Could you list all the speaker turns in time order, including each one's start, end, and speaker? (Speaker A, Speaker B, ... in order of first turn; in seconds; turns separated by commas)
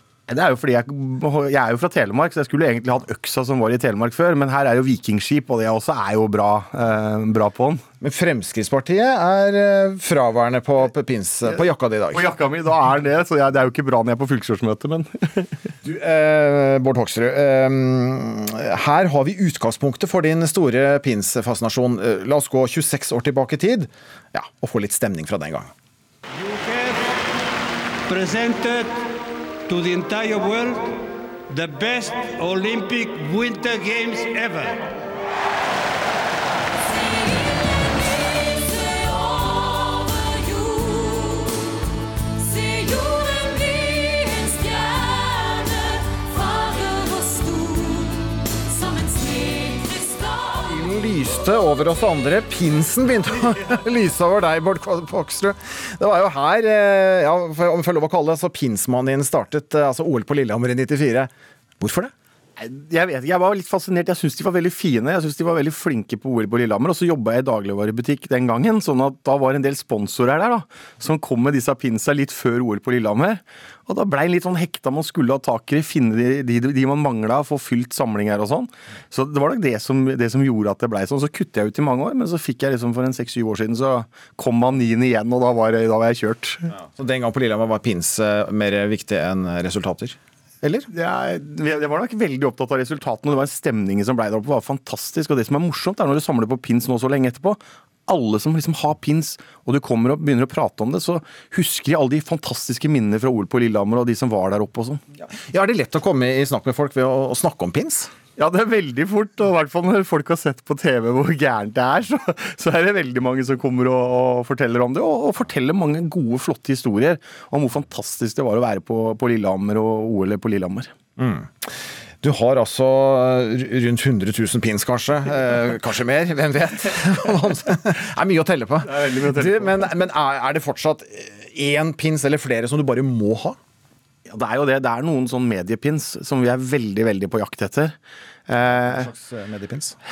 Speaker A: 0.3-7.8, Speaker B: 8.0-12.3, Speaker A: 12.1-15.5, Speaker B: 15.8-25.7, Speaker C: 28.1-28.9, Speaker C: 29.7-30.8, Speaker C: 31.5-34.8, Speaker B: 50.6-62.1, Speaker A: 62.6-86.7, Speaker B: 86.8-90.9, Speaker A: 90.9-105.0, Speaker B: 105.2-108.1, Speaker A: 108.4-120.9, Speaker B: 121.2-133.6, Speaker A: 128.9-129.8, Speaker A: 134.3-137.9, Speaker A: 138.5-139.1, Speaker B: 138.7-139.9